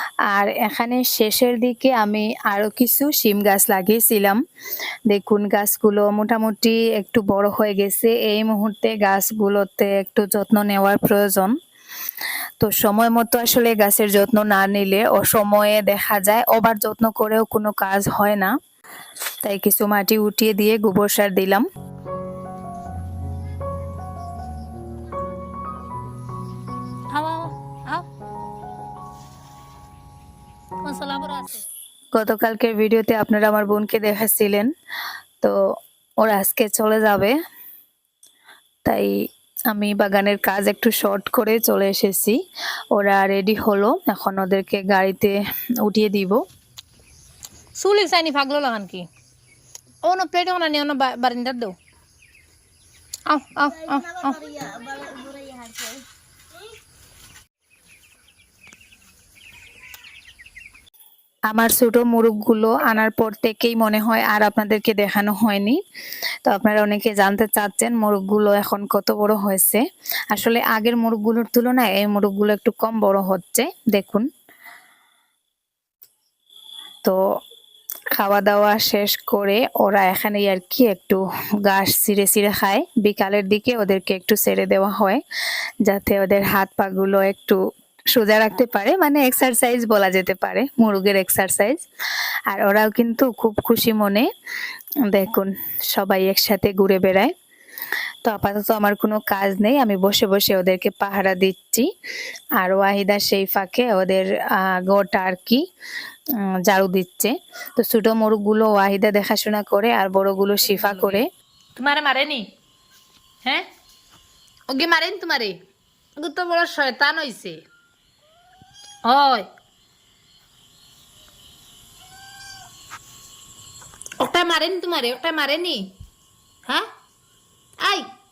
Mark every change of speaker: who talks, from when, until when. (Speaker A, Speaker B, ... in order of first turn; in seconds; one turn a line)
Speaker A: 0.3-4.4
Speaker A: 5.1-11.5
Speaker A: 12.6-18.5
Speaker A: 19.4-21.6
Speaker B: 27.1-28.1
Speaker B: 30.8-31.6
Speaker A: 32.1-34.7
Speaker A: 36.2-37.4
Speaker A: 38.8-39.1
Speaker A: 39.7-42.4
Speaker A: 42.9-46.4
Speaker B: 47.8-49.1
Speaker B: 50.0-51.7
Speaker B: 53.3-54.8
Speaker B: 55.6-56.0
Speaker A: 61.5-65.8
Speaker A: 66.4-69.8
Speaker A: 70.3-74.3
Speaker A: 78.1-85.2
Speaker A: 85.8-87.6
Speaker A: 88.1-91.8
Speaker A: 92.5-94.3
Speaker A: 95.1-97.3
Speaker A: 98.2-101.9
Speaker A: 102.6-105.6
Speaker A: 106.7-111.2
Speaker B: 110.7-111.2
Speaker B: 111.8-112.5
Speaker B: 114.7-115.6
Speaker B: 116.2-117.6
Speaker B: 119.0-119.5
Speaker B: 124.2-126.0
Speaker B: 127.8-128.1